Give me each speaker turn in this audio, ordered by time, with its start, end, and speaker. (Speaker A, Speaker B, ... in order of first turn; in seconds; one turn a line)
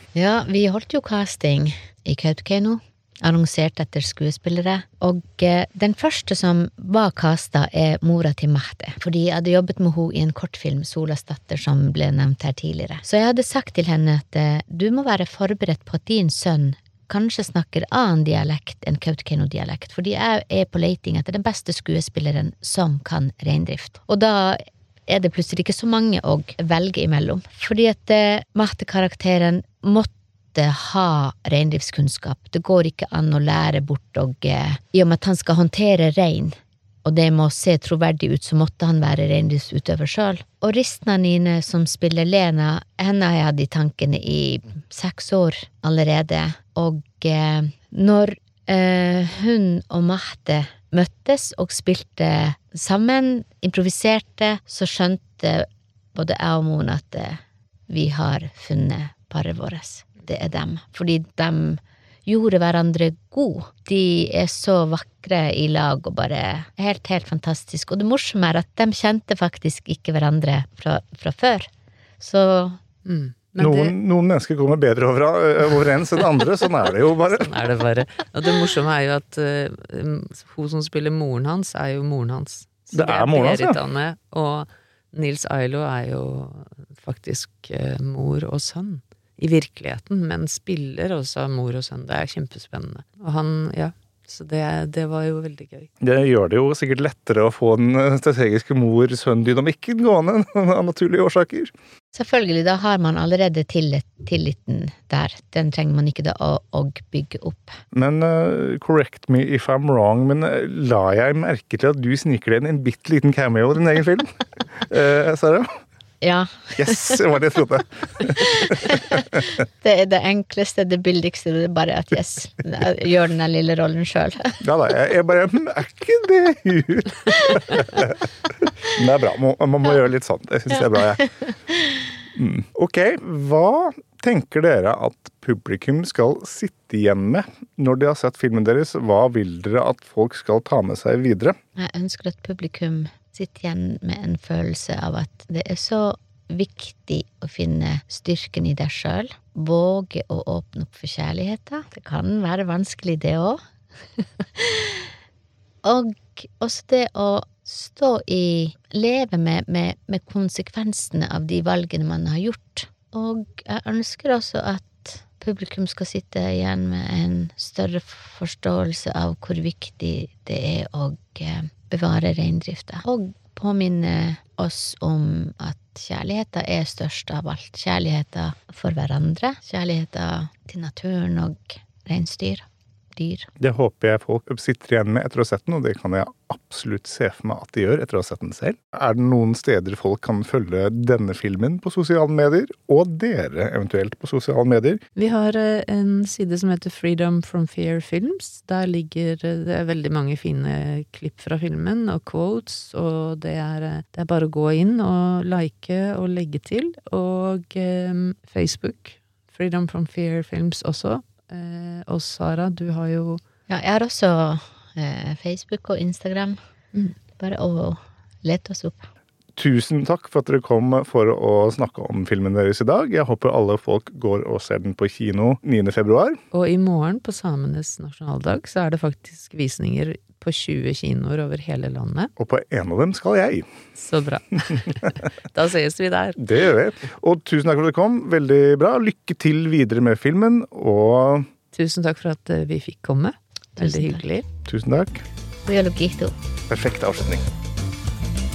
Speaker A: 0.1-72.8
Speaker B: 73.0-73.9
Speaker C: 73.6-77.5
Speaker B: 77.3-95.9
Speaker C: 82.9-83.8
Speaker C: 96.0-101.7
Speaker A: 102.1-107.8
Speaker C: 107.9-115.7
Speaker A: 116.2-117.2
Speaker C: 116.7-119.4
Speaker A: 118.3-124.6
Speaker C: 124.6-131.3
Speaker C: 132.3-141.6
Speaker A: 141.8-153.6
Speaker A: 154.2-155.1
Speaker A: 155.8-183.5
Speaker C: 183.6-195.0
Speaker B: 195.2-213.4
Speaker A: 213.7-216.6
Speaker A: 217.4-219.1
Speaker C: 219.6-226.4
Speaker B: 226.5-232.3
Speaker C: 232.4-233.7
Speaker B: 233.9-236.4
Speaker C: 236.4-241.5
Speaker B: 241.7-244.5
Speaker A: 243.8-244.2
Speaker C: 244.7-245.2
Speaker A: 245.7-246.3
Speaker C: 246.7-247.4